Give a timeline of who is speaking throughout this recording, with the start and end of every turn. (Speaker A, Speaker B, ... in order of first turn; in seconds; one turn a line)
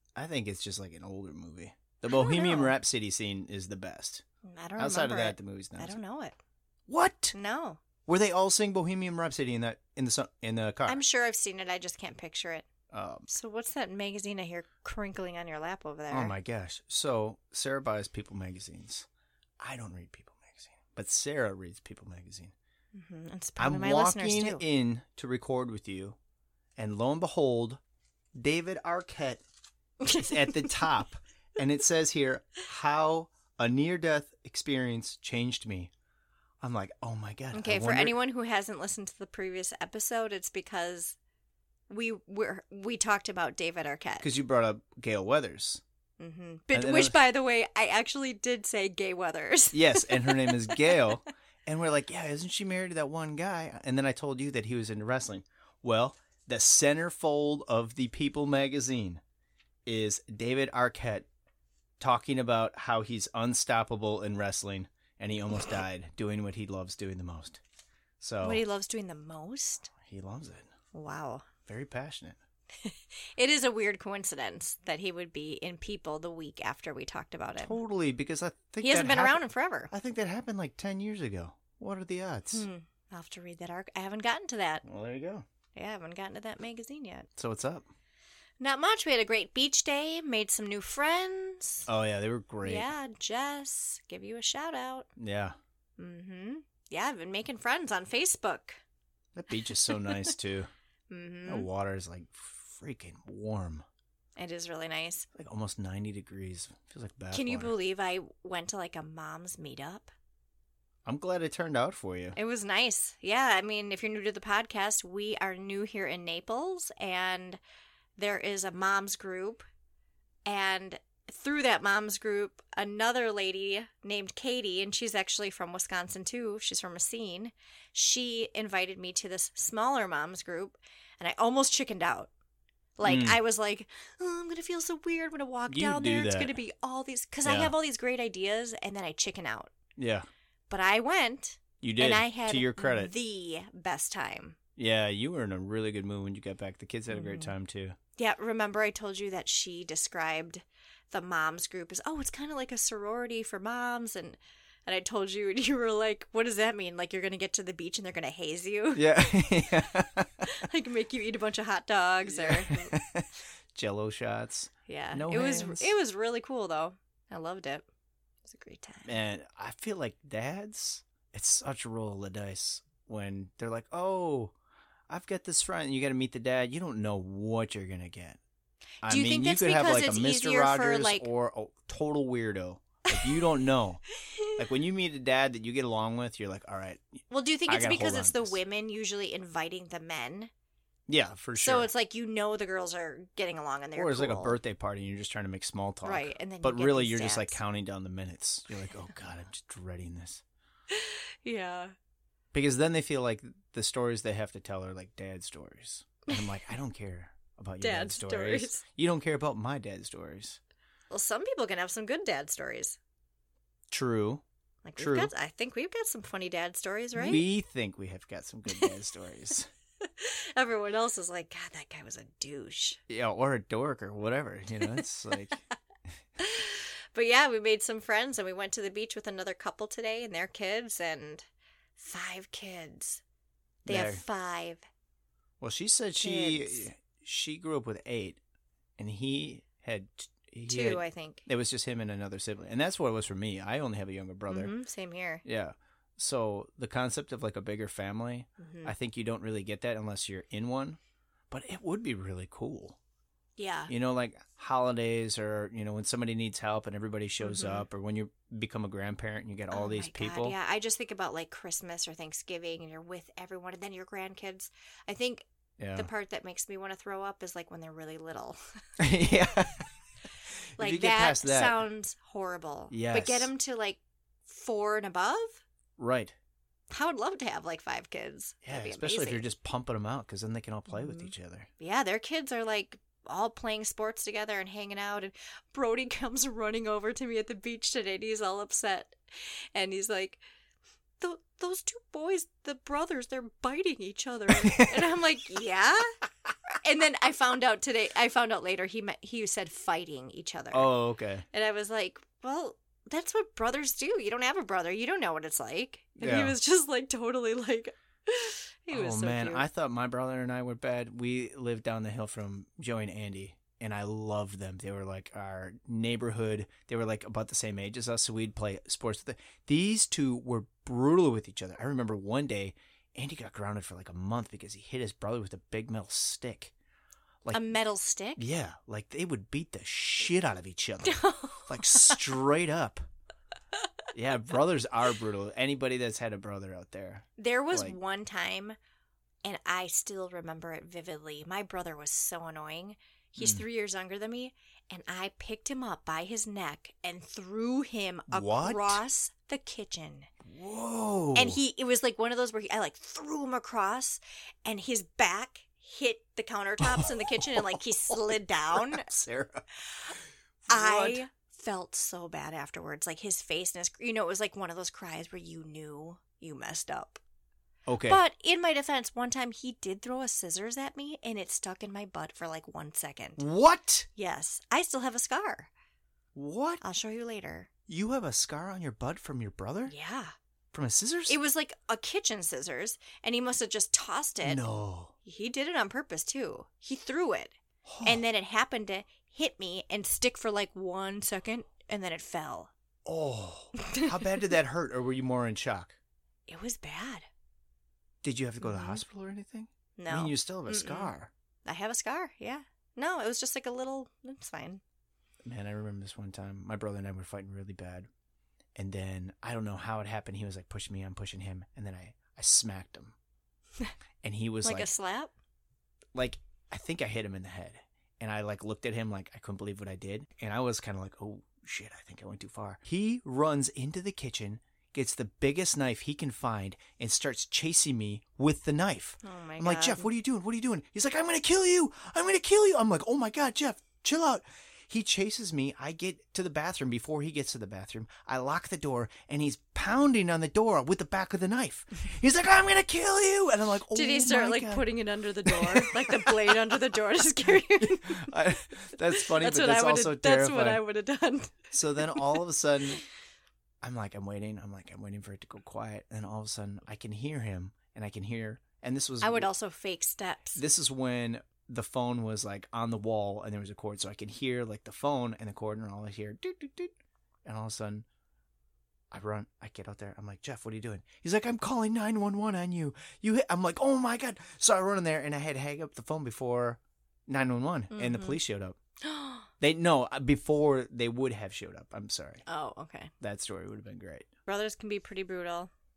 Speaker A: 0.1-4.2
Speaker B: 2.1-2.7
Speaker B: 4.4-6.4
Speaker A: 4.8-6.0
Speaker A: 6.9-7.3
Speaker B: 7.3-7.8
Speaker A: 8.1-11.0
Speaker B: 10.8-12.7
Speaker A: 12.9-13.3
Speaker B: 13.3-16.4
Speaker A: 16.1-19.1
Speaker A: 19.6-22.5
Speaker B: 22.9-24.6
Speaker A: 23.6-26.2
Speaker A: 26.8-27.8
Speaker A: 28.4-29.4
Speaker B: 30.0-30.8
Speaker A: 30.1-35.9
Speaker A: 36.6-38.1
Speaker B: 37.5-41.1
Speaker B: 41.9-44.3
Speaker A: 44.2-45.8
Speaker B: 46.2-50.9
Speaker A: 46.7-47.2
Speaker A: 49.7-59.2
Speaker A: 59.9-61.3
Speaker A: 62.0-67.6
Speaker A: 68.2-68.6
Speaker B: 68.4-69.9
Speaker A: 70.0-70.7
Speaker B: 70.9-71.5
Speaker A: 71.7-72.4
Speaker B: 72.8-77.8
Speaker A: 77.6-82.7
Speaker B: 78.8-79.9
Speaker B: 82.5-84.8
Speaker A: 84.8-85.4
Speaker B: 85.7-87.3
Speaker A: 87.4-87.9
Speaker B: 88.6-91.9
Speaker A: 91.9-92.9
Speaker B: 92.6-95.1
Speaker A: 95.2-95.5
Speaker B: 96.0-98.8
Speaker A: 99.3-100.7
Speaker B: 99.6-100.3
Speaker B: 101.1-101.7
Speaker A: 101.5-103.8
Speaker B: 104.3-105.3
Speaker A: 105.3-107.7
Speaker B: 107.3-110.1
Speaker A: 111.0-112.3
Speaker B: 112.3-117.6
Speaker B: 118.2-119.7
Speaker B: 120.5-132.3
Speaker B: 133.0-139.7
Speaker A: 133.0-133.4
Speaker A: 135.7-136.5
Speaker A: 137.4-137.7
Speaker A: 140.0-140.3
Speaker B: 140.7-144.6
Speaker A: 141.8-143.1
Speaker A: 144.8-147.9
Speaker B: 147.1-147.6
Speaker B: 148.2-159.6
Speaker A: 158.9-160.3
Speaker B: 160.4-162.9
Speaker A: 162.3-165.9
Speaker B: 164.9-167.9
Speaker B: 168.4-169.1
Speaker A: 169.0-174.5
Speaker A: 175.1-178.4
Speaker B: 179.0-181.3
Speaker A: 179.0-184.0
Speaker B: 183.1-183.4
Speaker A: 184.6-188.6
Speaker B: 187.3-190.5
Speaker A: 191.1-191.9
Speaker B: 191.6-194.6
Speaker A: 193.9-200.4
Speaker B: 196.0-197.6
Speaker B: 200.9-201.9
Speaker A: 202.5-210.6
Speaker B: 207.8-208.8
Speaker B: 211.1-213.0
Speaker A: 213.9-214.4
Speaker B: 214.8-217.4
Speaker A: 215.0-215.3
Speaker A: 217.1-219.7
Speaker B: 218.7-218.9
Speaker B: 220.0-223.0
Speaker A: 223.1-225.6
Speaker B: 226.4-231.4
Speaker B: 231.9-233.2
Speaker B: 233.8-234.8
Speaker A: 233.8-234.2
Speaker A: 235.6-238.4
Speaker B: 236.2-236.9
Speaker A: 239.0-244.7
Speaker B: 240.7-241.4
Speaker B: 244.5-245.4
Speaker A: 245.4-251.0
Speaker B: 248.6-248.9
Speaker A: 251.5-253.0
Speaker B: 253.6-253.9
Speaker A: 253.9-260.6
Speaker B: 257.4-257.9
Speaker B: 259.7-268.6
Speaker A: 265.8-266.1
Speaker A: 269.0-269.9
Speaker A: 270.8-271.8
Speaker B: 270.8-275.6
Speaker A: 272.9-273.5
Speaker A: 276.0-276.3
Speaker B: 276.9-279.4
Speaker A: 278.6-281.7
Speaker B: 280.9-290.4
Speaker B: 291.2-296.1
Speaker B: 296.8-300.9
Speaker A: 300.7-301.4
Speaker B: 301.5-309.6
Speaker A: 306.2-306.6
Speaker A: 308.9-326.7
Speaker B: 327.5-328.4
Speaker A: 328.4-333.1
Speaker B: 331.0-332.2
Speaker A: 334.1-337.9
Speaker B: 337.4-338.8
Speaker B: 339.4-350.3
Speaker A: 343.4-343.6
Speaker A: 348.3-349.0
Speaker A: 350.4-351.6
Speaker B: 351.3-359.1
Speaker A: 356.9-357.3
Speaker A: 358.7-359.6
Speaker A: 360.6-361.2
Speaker B: 360.7-367.2
Speaker A: 367.9-368.2
Speaker B: 368.1-373.4
Speaker A: 373.4-374.1
Speaker B: 374.1-375.7
Speaker A: 376.3-376.8
Speaker B: 376.8-377.7
Speaker A: 377.9-379.9
Speaker B: 379.9-380.3
Speaker A: 380.7-381.4
Speaker B: 381.3-384.6
Speaker A: 384.4-385.1
Speaker B: 385.2-392.7
Speaker A: 387.8-388.2
Speaker A: 393.0-396.0
Speaker B: 393.8-394.4
Speaker B: 396.5-397.3
Speaker A: 398.2-401.3
Speaker B: 398.6-399.0
Speaker B: 400.0-401.1
Speaker B: 401.6-404.8
Speaker A: 405.4-408.1
Speaker A: 408.8-413.1
Speaker A: 414.2-414.9
Speaker B: 414.6-415.3
Speaker A: 416.1-444.9
Speaker B: 429.2-430.1
Speaker B: 443.9-448.3
Speaker A: 445.5-446.7
Speaker A: 447.6-450.8
Speaker B: 449.0-452.4
Speaker A: 451.7-453.0
Speaker A: 453.8-459.5
Speaker B: 459.2-460.6
Speaker A: 460.6-466.9
Speaker A: 467.4-468.1
Speaker A: 469.1-478.8
Speaker B: 477.9-478.4
Speaker B: 479.0-479.5
Speaker A: 479.6-482.4
Speaker B: 482.4-483.1
Speaker A: 483.2-484.2
Speaker B: 484.4-485.7